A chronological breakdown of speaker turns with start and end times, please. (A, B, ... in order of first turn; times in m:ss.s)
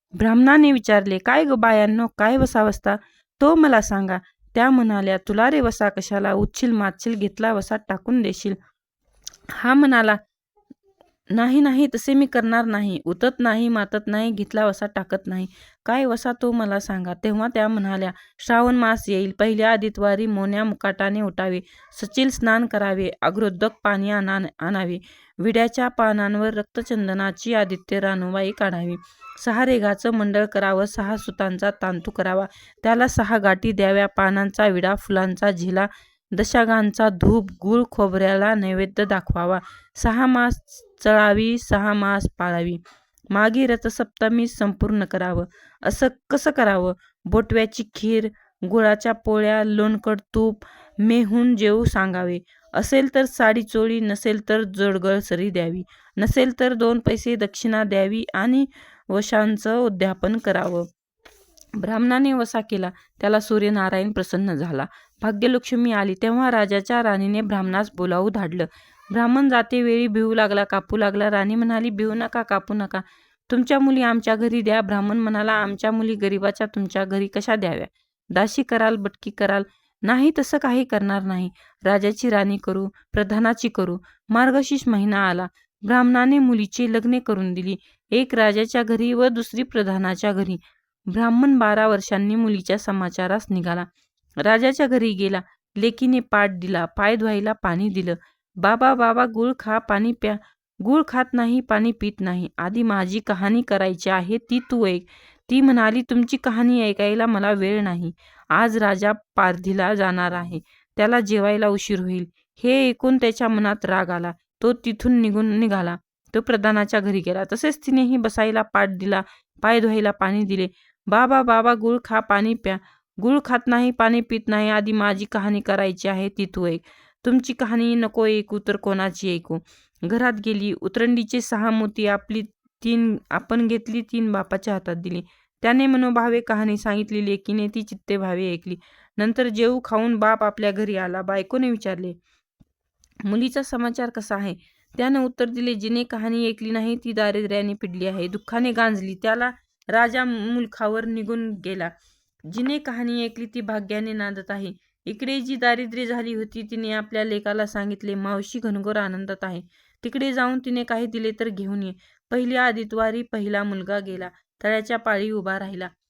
0:00.2-0:08.6 A
0:09.6-0:10.2 A
0:11.3-0:42.8 A
0:43.3-1:00.9 A
1:01.8-1:30.6 A
1:31.1-1:33.9 A
1:34.4-2:22.2 A
2:23.3-2:31.9 A
2:32.5-2:45.9 A